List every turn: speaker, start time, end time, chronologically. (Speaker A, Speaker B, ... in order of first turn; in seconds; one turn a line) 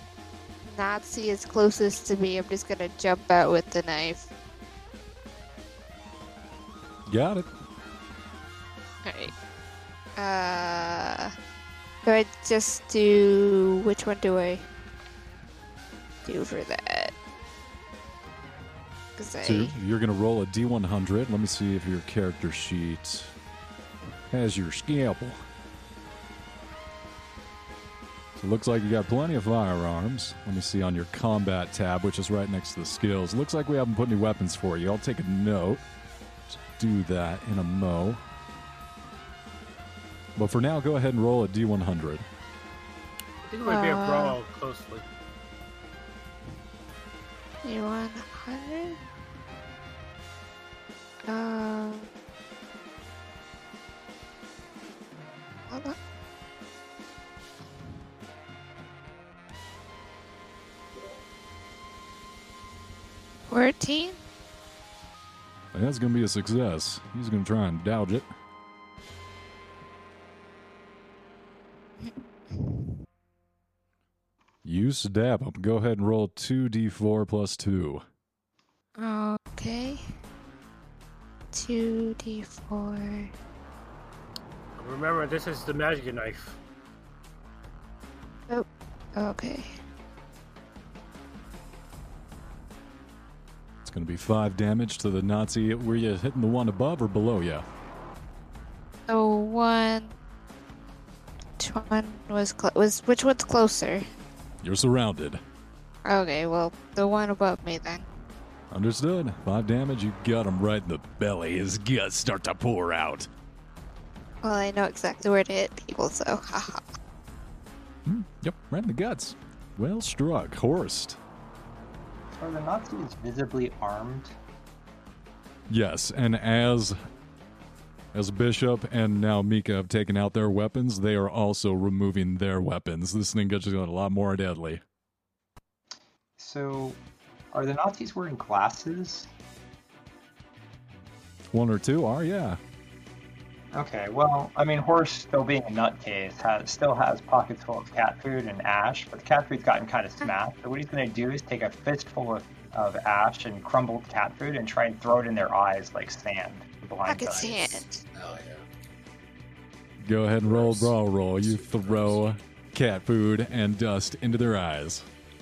Speaker A: 0.7-4.3
Speaker B: 7.1-7.5
Speaker A: 9.1-9.3
Speaker A: 10.2-11.3
Speaker A: 12.1-14.6
Speaker A: 16.2-17.1
Speaker A: 19.2-19.7
Speaker B: 19.4-23.3
Speaker B: 24.3-25.4
Speaker B: 28.4-35.8
Speaker B: 36.7-38.2
Speaker B: 40.4-42.2
Speaker C: 43.5-45.0
Speaker A: 43.7-44.4
Speaker A: 47.6-49.0
Speaker A: 51.3-52.1
Speaker A: 55.7-56.0
Speaker A: 63.5-64.2
Speaker B: 65.7-68.3
Speaker A: 72.0-72.9
Speaker B: 74.6-78.0
Speaker A: 79.0-80.0
Speaker A: 81.5-83.3
Speaker C: 84.8-86.6
Speaker A: 88.5-89.8
Speaker B: 93.8-97.6
Speaker A: 99.1-100.2
Speaker A: 101.6-104.0
Speaker B: 104.6-105.4
Speaker A: 106.1-108.1
Speaker B: 108.7-113.3
Speaker A: 114.4-116.8
Speaker B: 118.0-121.2
Speaker D: 122.4-124.3
Speaker B: 125.7-127.0
Speaker B: 128.1-134.8
Speaker D: 136.4-137.0
Speaker D: 137.5-139.3
Speaker B: 141.5-142.6
Speaker D: 143.7-157.7
Speaker A: 157.1-158.0
Speaker E: 157.3-158.7
Speaker B: 160.0-165.1
Speaker E: 160.4-162.2